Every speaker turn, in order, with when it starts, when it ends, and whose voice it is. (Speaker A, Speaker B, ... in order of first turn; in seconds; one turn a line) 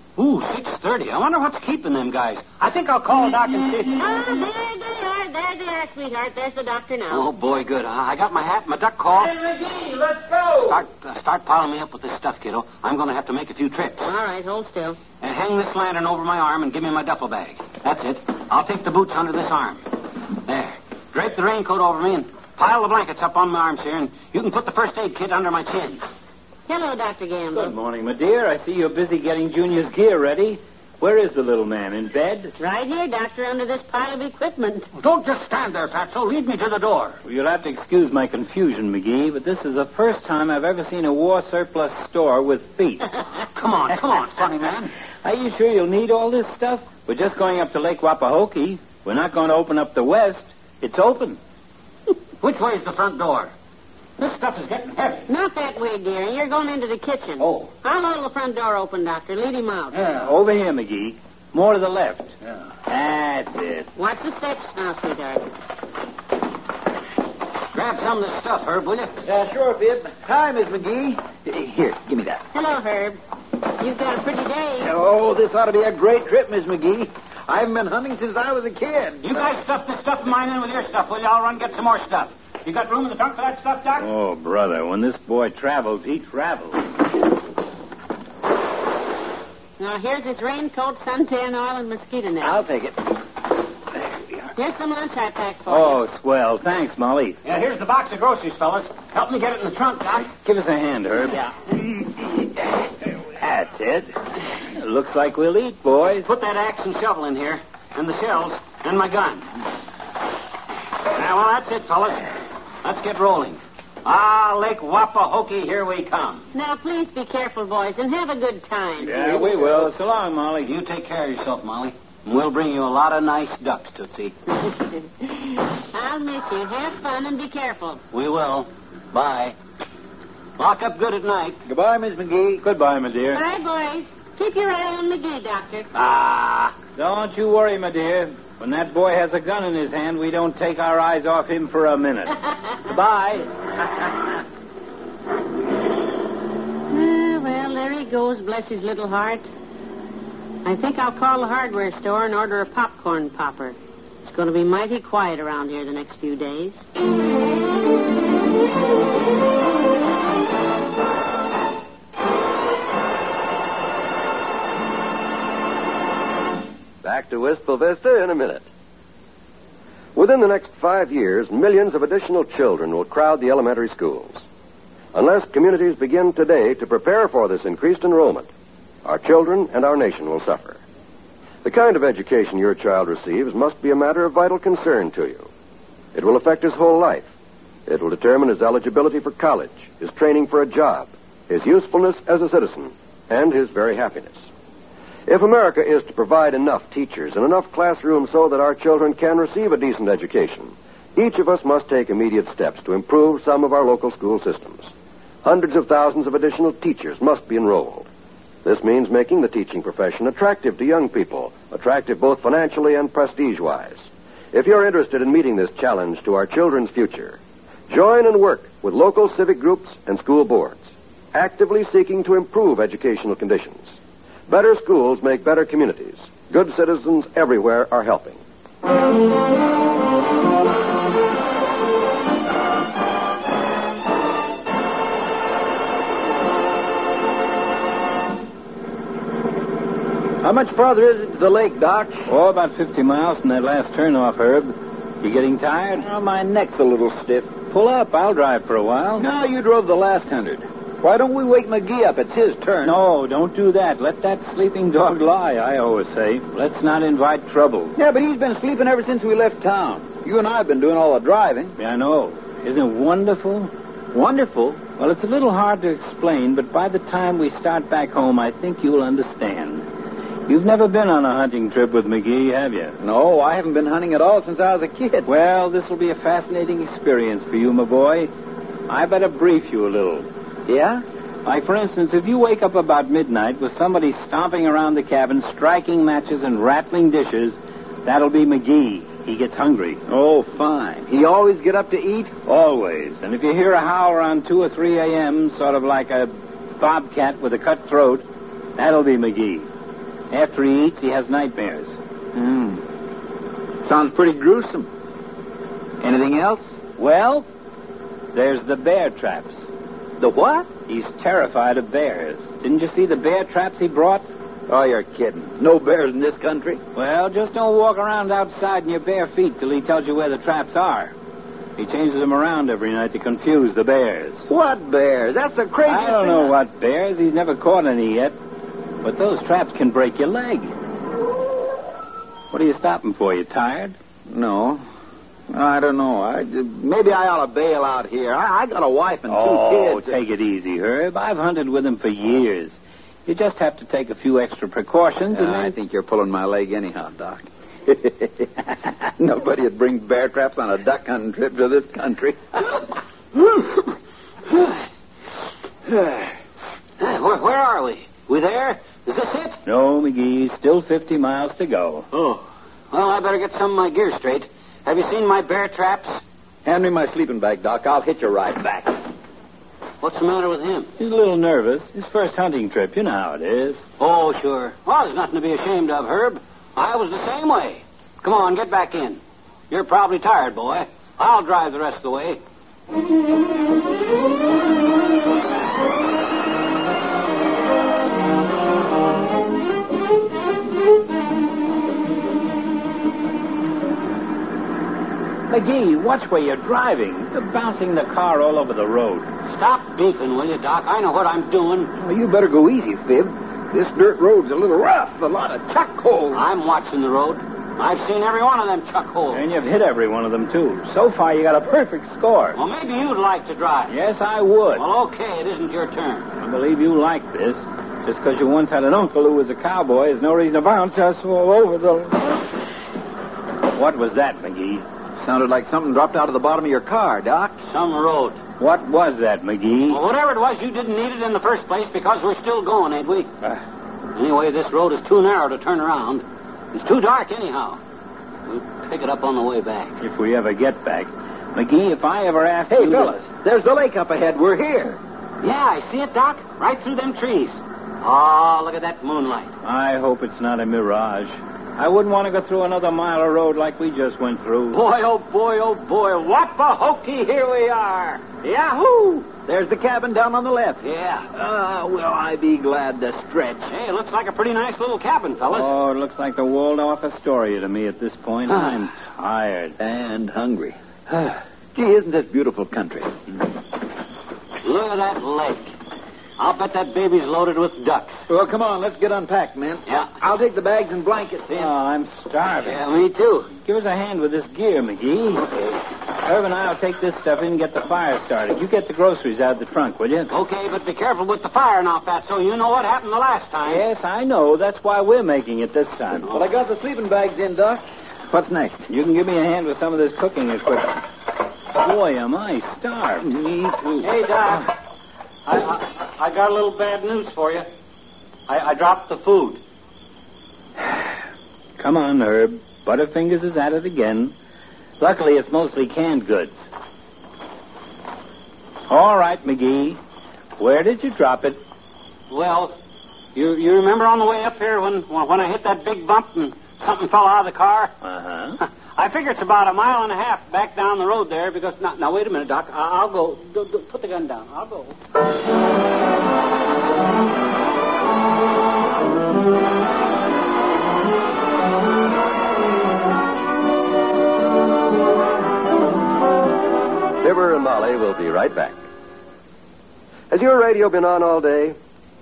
Speaker A: 0.2-4.0
Speaker B: 4.0-7.3
Speaker A: 7.1-9.3
Speaker C: 9.2-10.8
Speaker A: 10.7-14.1
Speaker B: 14.0-15.0
Speaker A: 15.2-26.0
Speaker B: 26.7-27.7
Speaker C: 27.5-32.5
Speaker B: 32.6-34.9
Speaker A: 35.0-37.2
Speaker C: 37.2-43.1
Speaker A: 43.4-44.9
Speaker C: 45.2-51.4
Speaker A: 52.4-53.5
Speaker A: 54.2-55.3
Speaker B: 55.3-60.1
Speaker A: 57.4-57.7
Speaker C: 60.2-62.4
Speaker C: 62.9-63.9
Speaker B: 64.0-65.5
Speaker A: 67.7-69.2
Speaker D: 69.2-72.4
Speaker B: 72.5-74.9
Speaker D: 74.8-79.5
Speaker A: 79.2-84.1
Speaker C: 84.0-86.9
Speaker B: 89.8-92.7
Speaker D: 92.4-93.0
Speaker B: 94.6-96.0
Speaker C: 95.7-97.4
Speaker A: 97.4-100.3
Speaker C: 100.4-102.4
Speaker C: 103.1-104.1
Speaker C: 104.7-106.3
Speaker A: 106.1-109.5
Speaker A: 111.1-116.5
Speaker B: 116.5-119.3
Speaker C: 119.0-120.7
Speaker A: 120.6-124.3
Speaker B: 124.7-128.0
Speaker A: 128.1-129.6
Speaker A: 130.6-131.6
Speaker D: 131.7-132.6
Speaker C: 132.6-133.4
Speaker B: 133.3-135.9
Speaker A: 135.9-136.7
Speaker C: 136.9-143.5
Speaker B: 146.9-149.5
Speaker B: 150.6-156.8
Speaker E: 167.0-168.7
Speaker E: 170.2-174.4
Speaker E: 175.1-178.5
Speaker E: 179.1-180.8
Speaker E: 181.6-185.5
Speaker E: 186.1-187.3
Speaker E: 187.9-194.4
Speaker E: 195.3-204.9
Speaker E: 205.4-208.1
Speaker E: 208.7-223.9
Speaker E: 224.5-228.4
Speaker D: 240.4-242.3
Speaker C: 242.3-246.1
Speaker D: 246.0-247.5
Speaker C: 247.7-249.3
Speaker D: 249.2-252.9
Speaker C: 252.8-258.0
Speaker D: 258.0-261.7
Speaker C: 261.8-263.7
Speaker D: 264.1-264.8
Speaker C: 265.0-269.9
Speaker C: 270.5-273.0
Speaker D: 273.0-275.3
Speaker C: 275.3-278.3
Speaker C: 278.9-280.3
Speaker D: 280.7-281.0
Speaker C: 281.4-290.0
Speaker D: 290.1-292.3
Speaker C: 292.5-298.2
Speaker C: 298.8-299.7
Speaker C: 300.3-302.0
Speaker D: 302.4-302.8
Speaker D: 303.8-304.9
Speaker D: 306.0-306.7
Speaker C: 307.0-307.5
Speaker C: 308.3-309.6
Speaker D: 310.2-310.7
Speaker C: 310.9-314.3
Speaker D: 314.7-316.8
Speaker C: 316.9-321.1
Speaker C: 321.8-324.5
Speaker D: 324.5-326.5
Speaker C: 325.9-328.4
Speaker C: 329.0-330.7
Speaker C: 332.5-333.9
Speaker D: 334.3-334.8
Speaker D: 335.5-340.2
Speaker C: 339.3-345.8
Speaker D: 345.3-352.8
Speaker A: 357.0-359.6
Speaker C: 359.7-362.1
Speaker A: 362.1-362.4
Speaker A: 362.9-366.2
Speaker D: 366.6-369.0
Speaker A: 370.0-370.9
Speaker C: 371.0-373.8
Speaker A: 374.0-382.4
Speaker C: 395.5-399.3
Speaker A: 399.5-401.9
Speaker D: 402.0-406.4
Speaker A: 406.3-409.4
Speaker C: 409.3-412.6
Speaker A: 412.6-413.9
Speaker C: 413.9-414.8
Speaker A: 414.8-416.3
Speaker C: 416.4-422.3
Speaker C: 423.7-424.9
Speaker D: 425.2-427.6
Speaker A: 427.7-428.4
Speaker C: 428.6-430.0
Speaker A: 429.9-433.3
Speaker A: 434.1-437.8
Speaker A: 438.5-440.0
Speaker C: 440.0-443.2
Speaker D: 442.7-445.0
Speaker A: 445.4-449.5
Speaker C: 449.6-454.8
Speaker A: 454.7-459.3
Speaker D: 459.4-463.7
Speaker A: 460.9-461.2
Speaker A: 463.7-465.7
Speaker C: 465.5-469.8
Speaker D: 469.8-473.4
Speaker A: 474.6-475.7
Speaker A: 476.4-478.2
Speaker D: 478.3-481.7
Speaker C: 481.5-482.8
Speaker A: 482.6-483.5
Speaker C: 483.6-485.5
Speaker C: 486.1-490.3
Speaker A: 490.3-493.8
Speaker C: 493.7-496.4
Speaker D: 496.3-498.9
Speaker C: 498.9-501.0
Speaker C: 501.8-503.3
Speaker D: 503.2-504.1
Speaker A: 504.0-504.7
Speaker A: 505.5-507.7
Speaker A: 508.5-509.6
Speaker C: 511.8-514.3
Speaker C: 515.0-516.7
Speaker C: 518.9-520.0
Speaker C: 520.6-521.6
Speaker A: 522.3-522.8
Speaker A: 523.4-527.9
Speaker C: 528.0-528.6
Speaker A: 528.6-535.0
Speaker E: 547.2-548.8
Speaker E: 550.3-551.8